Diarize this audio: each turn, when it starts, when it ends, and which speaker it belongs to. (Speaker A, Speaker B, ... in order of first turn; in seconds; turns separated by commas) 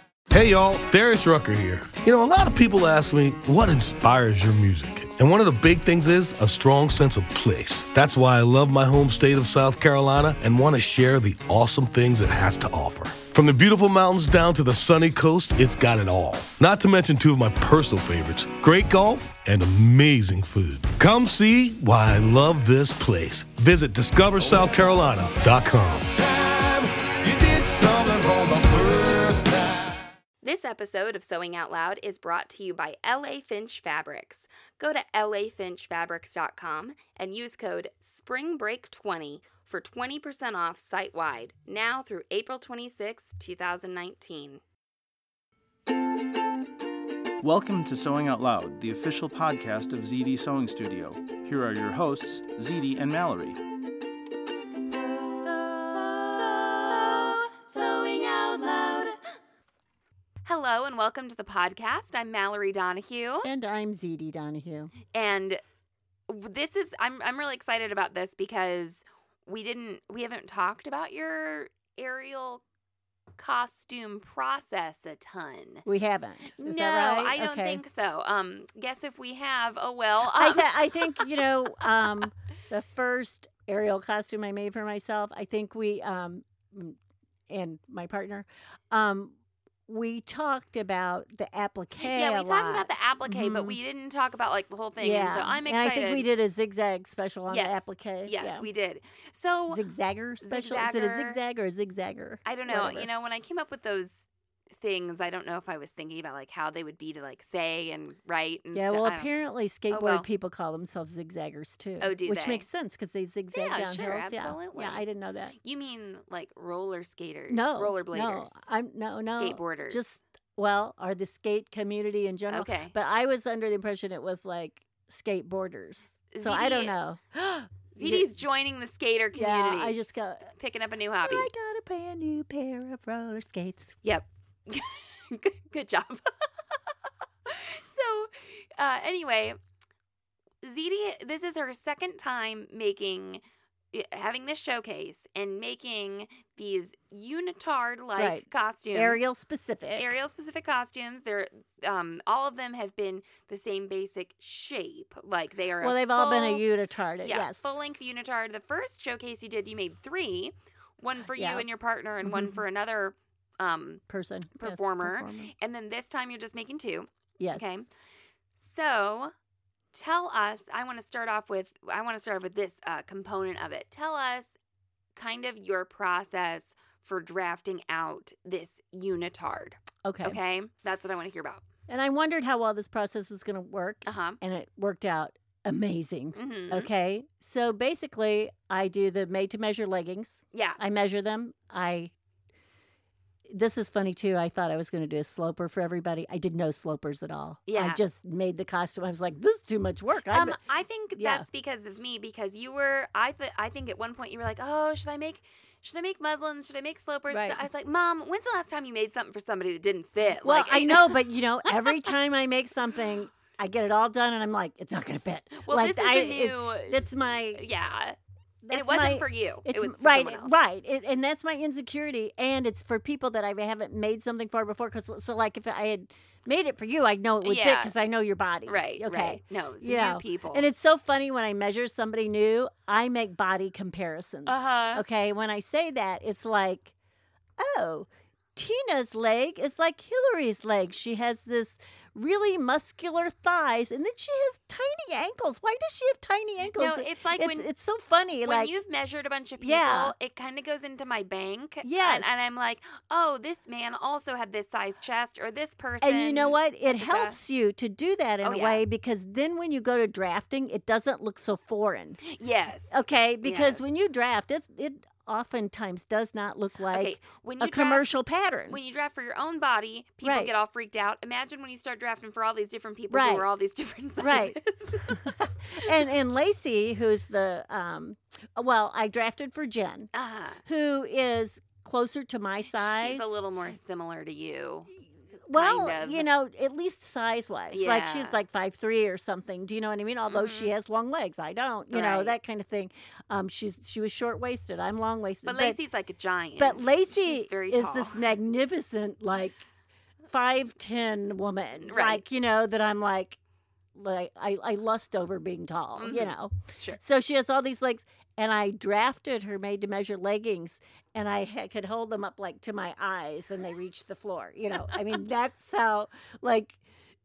Speaker A: 0.3-26.4, Speaker A: 27.2-29.7, Speaker B: 30.4-44.6, Speaker C: 47.4-53.6, Speaker B: 54.8-59.2, Speaker B: 60.4-63.5, Speaker D: 63.4-64.9, Speaker B: 65.1-65.6, Speaker B: 66.3-72.6, Speaker B: 73.4-75.8, Speaker D: 75.8-77.8, Speaker B: 76.6-81.5, Speaker D: 80.2-87.0, Speaker D: 87.5-89.3, Speaker D: 89.9-93.8, Speaker B: 92.0-96.2, Speaker D: 95.0-98.7, Speaker B: 97.5-99.8, Speaker D: 99.7-103.1, Speaker B: 100.4-101.4, Speaker B: 102.5-104.2, Speaker B: 104.8-109.3, Speaker D: 108.7-115.5, Speaker B: 109.9-110.3, Speaker B: 112.0-112.7, Speaker B: 113.5-115.0, Speaker B: 115.6-118.6, Speaker D: 117.5-128.3, Speaker B: 119.3-120.0, Speaker B: 122.5-122.9, Speaker B: 126.3-127.0, Speaker B: 127.9-131.5, Speaker D: 129.3-130.5, Speaker D: 131.2-134.0, Speaker B: 134.0-136.9, Speaker B: 137.5-139.6, Speaker B: 140.6-149.2, Speaker D: 148.2-150.1, Speaker B: 150.0-156.6, Speaker D: 155.8-157.8, Speaker B: 157.2-164.0, Speaker D: 161.3-161.7, Speaker D: 162.2-162.6, Speaker D: 164.1-165.5, Speaker B: 164.6-167.9, Speaker D: 167.4-167.8, Speaker B: 168.6-169.3, Speaker B: 169.9-174.6, Speaker B: 175.2-181.6, Speaker D: 180.0-180.4, Speaker D: 181.9-192.1, Speaker B: 184.1-184.4, Speaker B: 186.3-186.9, Speaker B: 190.5-190.8, Speaker D: 193.5-200.6, Speaker B: 197.7-198.0, Speaker B: 200.3-212.1, Speaker D: 201.2-201.5, Speaker D: 207.3-207.7, Speaker D: 210.4-217.7, Speaker B: 215.6-218.2, Speaker D: 218.6-236.9, Speaker B: 218.7-220.6, Speaker B: 227.4-227.9, Speaker B: 228.7-230.7, Speaker B: 234.5-235.0, Speaker D: 237.6-248.7, Speaker B: 246.7-247.7, Speaker B: 248.4-257.4, Speaker D: 249.6-250.1, Speaker D: 251.8-252.5, Speaker D: 256.0-262.2, Speaker B: 258.4-258.8, Speaker B: 262.2-263.8, Speaker D: 262.9-268.8, Speaker B: 266.9-268.1, Speaker B: 268.7-275.9, Speaker D: 270.2-270.5, Speaker D: 273.1-273.4, Speaker D: 274.2-280.1, Speaker B: 280.1-280.6, Speaker D: 280.6-283.3, Speaker B: 282.8-284.9, Speaker D: 285.5-295.8, Speaker B: 285.5-286.2, Speaker B: 287.7-288.4, Speaker B: 290.3-290.7, Speaker B: 291.9-292.3, Speaker B: 295.4-298.2, Speaker D: 296.6-299.6, Speaker D: 300.3-303.4, Speaker B: 301.8-302.2, Speaker D: 303.9-316.8, Speaker B: 305.9-307.0